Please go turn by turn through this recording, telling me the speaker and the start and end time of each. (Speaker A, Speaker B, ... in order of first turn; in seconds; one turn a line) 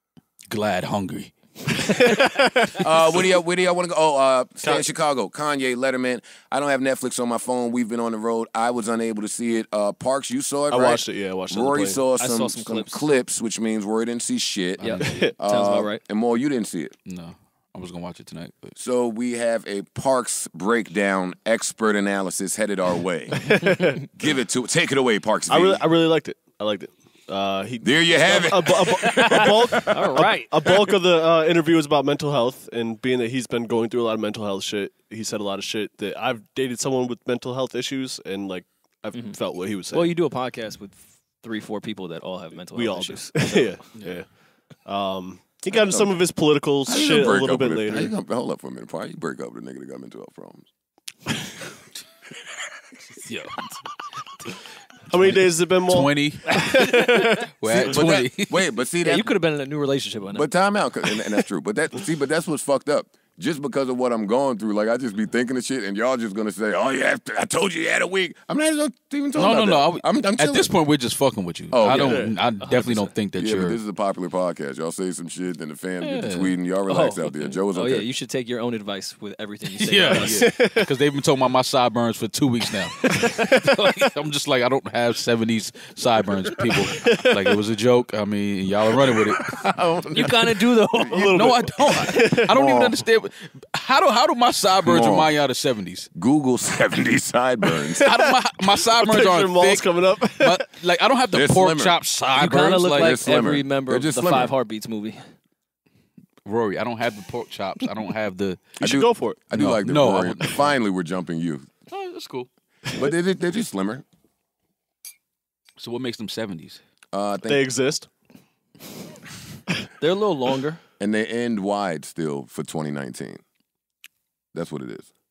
Speaker A: 0.5-1.9
Speaker B: 1.8-2.9
Speaker C: 2.8-16.9
Speaker B: 10.7-12.0
Speaker D: 12.2-13.1
Speaker A: 14.8-15.3
Speaker D: 14.8-16.0
Speaker B: 15.0-15.3
Speaker A: 17.1-18.8
Speaker C: 18.8-23.6
Speaker B: 23.4-24.0
Speaker C: 24.1-25.8
Speaker B: 25.5-40.1
Speaker C: 27.8-29.9
Speaker D: 29.0-30.5
Speaker D: 39.9-43.8
Speaker B: 42.7-48.1
Speaker C: 45.7-46.2
Speaker C: 46.9-50.7
Speaker A: 53.3-53.7
Speaker B: 55.1-58.0
Speaker A: 55.2-58.6
Speaker C: 57.7-59.3
Speaker D: 59.0-60.5
Speaker C: 60.4-70.7
Speaker A: 69.4-73.8
Speaker C: 71.7-78.1
Speaker B: 71.9-72.4
Speaker D: 72.6-73.1
Speaker A: 76.0-76.5
Speaker D: 76.9-80.5
Speaker A: 79.8-89.7
Speaker B: 80.2-80.9
Speaker B: 86.7-87.6
Speaker C: 89.5-91.0
Speaker D: 90.1-91.2
Speaker B: 91.1-92.7
Speaker A: 91.1-96.1
Speaker C: 92.5-93.0
Speaker C: 94.8-95.3
Speaker C: 96.2-98.0
Speaker B: 97.8-100.7
Speaker A: 98.1-99.9
Speaker A: 100.4-103.4
Speaker C: 101.3-102.0
Speaker D: 102.3-105.3
Speaker C: 102.9-104.5
Speaker A: 106.5-108.8
Speaker B: 108.8-109.4
Speaker C: 108.8-111.7
Speaker A: 109.5-110.7
Speaker A: 111.9-112.5
Speaker C: 112.9-114.0
Speaker A: 115.8-116.8
Speaker C: 117.1-117.6
Speaker B: 117.5-118.1
Speaker D: 120.0-120.8
Speaker C: 121.0-123.4
Speaker C: 124.5-125.1